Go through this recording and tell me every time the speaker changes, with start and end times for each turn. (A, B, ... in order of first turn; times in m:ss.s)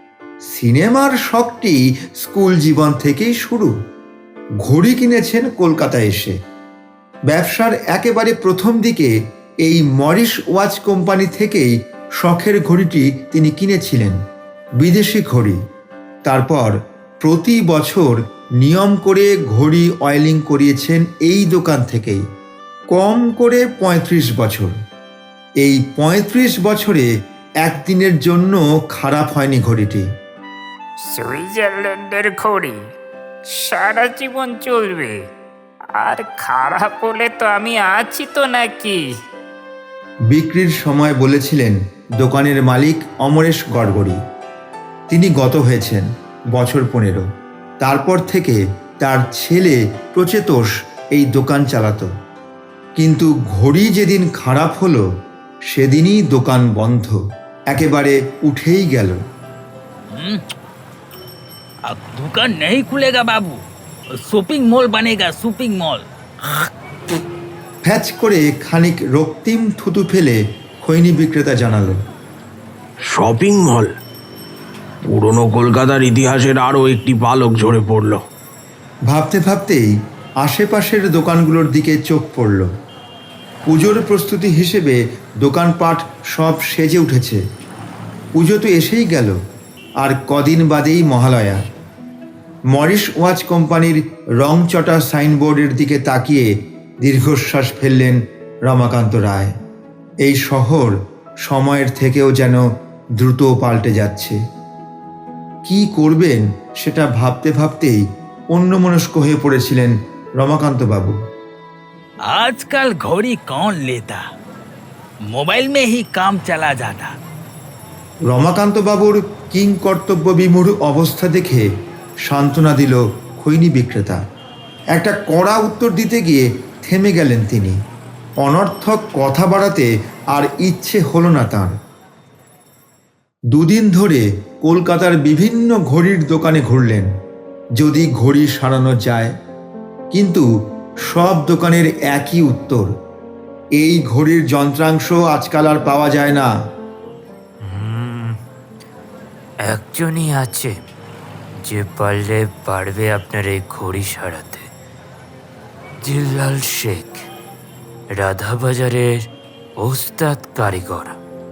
0:00.5-0:03.7 A
0:04.6-0:06.4 A
0:07.3-0:09.1 A
0:09.6-0:14.2 A
0:14.8-0:15.6 A
0:16.2-0:22.2 A
0:22.9-0:24.8 A
0:25.6-0:27.1 A
0:27.6-0:30.0 A
0:31.1-0:32.8 B
0:33.5-0:35.2 B
0:36.0-0:39.0 B
0:40.3-0:44.2 A
0:45.1-0:47.2 A
0:47.8-0:52.1 A
0:53.0-0:55.0 A
0:55.7-0:57.2 A
0:57.7-0:59.2 A
1:00.1-1:00.4 C
1:01.9-1:03.6 C
1:04.2-1:06.0 C
1:07.8-1:12.0 A
1:13.1-1:13.9 D
1:15.1-1:18.2 D
1:19.1-1:22.7 A
1:23.7-1:27.4 A
1:28.4-1:29.4 A
1:30.0-1:31.6 A
1:32.7-1:36.5 A
1:37.0-1:39.5 A
1:40.2-1:42.6 A
1:43.2-1:44.4 A
1:45.6-1:51.2 A
1:52.3-1:54.2 C
1:55.3-1:57.1 C
1:58.3-2:01.7 A
2:02.3-2:04.2 A
2:04.9-2:07.8 A
2:08.4-2:11.8 A
2:13.5-2:17.1 A
2:17.8-2:19.3 A
2:20.1-2:20.5 A
2:21.1-2:22.9 A
2:23.8-2:26.5 A
2:27.6-2:28.4 E
2:29.6-2:30.8 E
2:31.6-2:34.6 E
2:36.0-2:37.2 E
2:38.1-2:39.1 E
2:39.8-2:41.2 E